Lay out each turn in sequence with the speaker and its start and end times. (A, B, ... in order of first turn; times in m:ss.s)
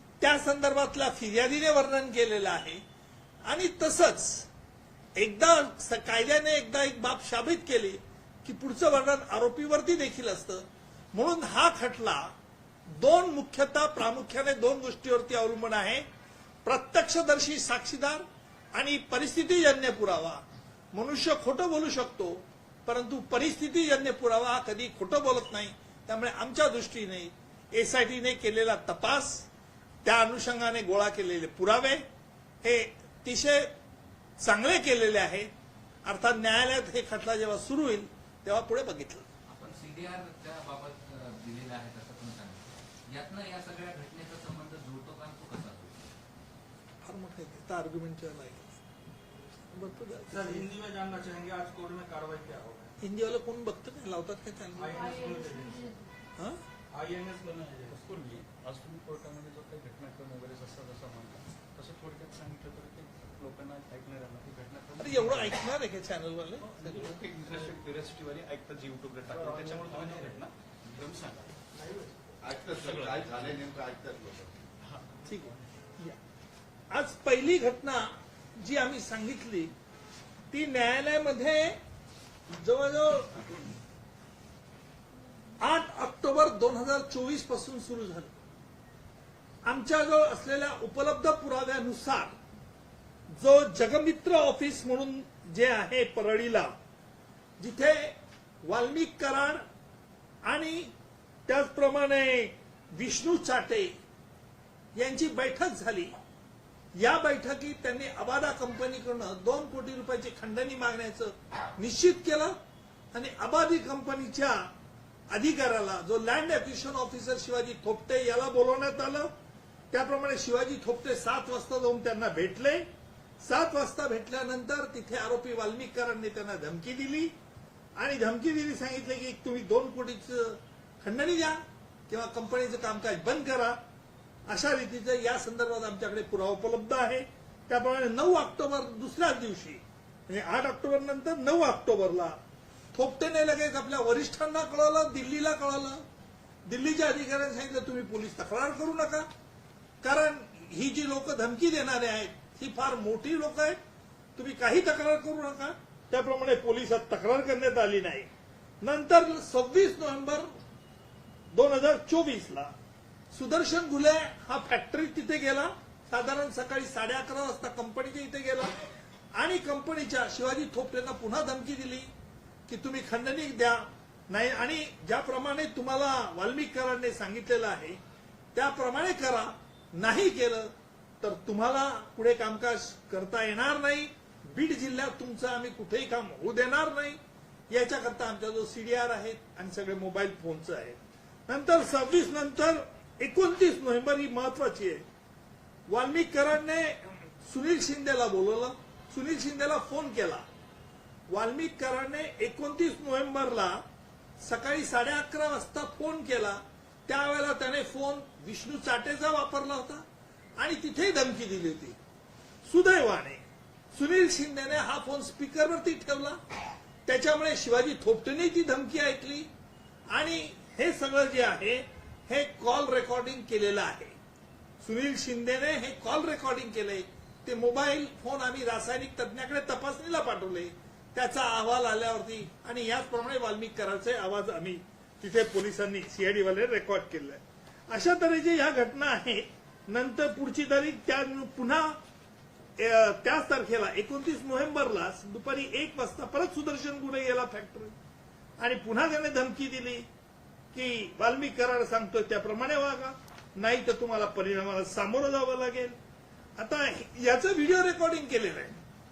0:00.2-0:02.8 A
0:03.4-0:04.5 A
0:05.2-0:12.3 A
0:12.9-0:16.0 A
0:16.6-0:20.4 A
0:20.9-0:29.5 A
0:30.0-0:32.0 A
0:32.6-0:33.7 A
0:34.4-0:35.5 A
0:36.0-0:39.3 A
0:39.5-0:46.1 B
0:47.0-0:48.8 A
0:49.7-0:50.7 A
0:50.3-0:52.9 C
0:53.0-0:55.1 A
0:54.7-0:55.9 C
0:56.9-0:58.0 C
0:57.4-1:05.6 D
1:05.0-1:07.2 A
1:06.6-1:11.6 D
1:09.3-1:10.2 E
1:11.7-1:12.2 C
1:12.4-1:14.5 E
1:12.8-1:13.5 D
1:14.8-1:15.6 D
1:15.2-1:16.2 A
1:16.9-1:19.7 A
1:20.5-1:21.8 A
1:22.5-1:23.3 A
1:25.6-1:28.3 A
1:29.6-1:32.3 A
1:33.3-1:36.7 A
1:37.6-1:39.6 A
1:40.4-1:40.9 A
1:41.5-1:43.9 A
1:44.9-1:46.1 A
1:46.9-1:52.5 A
1:53.1-1:54.7 A
1:55.3-1:59.3 A
1:59.9-2:02.8 A
2:03.4-2:07.3 A
2:08.0-2:13.8 A
2:14.5-2:22.4 A
2:22.9-2:26.0 A
2:26.6-2:29.3 A
2:30.0-2:33.8 A
2:34.4-2:38.3 A
2:38.8-2:40.5 A
2:41.5-2:42.7 A
2:43.3-2:48.7 A
2:49.3-2:52.1 A
2:52.7-2:58.0 A
2:58.5-3:07.2 A
3:07.7-3:15.0 A
3:15.9-3:20.4 A
3:21.3-3:23.8 A
3:24.4-3:30.0 A
3:30.6-3:32.0 A
3:32.6-3:33.4 A
3:33.9-3:36.4 A
3:37.0-3:39.5 A
3:40.1-3:44.1 A
3:44.8-4:02.0 A
4:02.8-4:07.9 A
4:08.6-4:10.1 A
4:10.7-4:16.0 A
4:16.6-4:18.8 A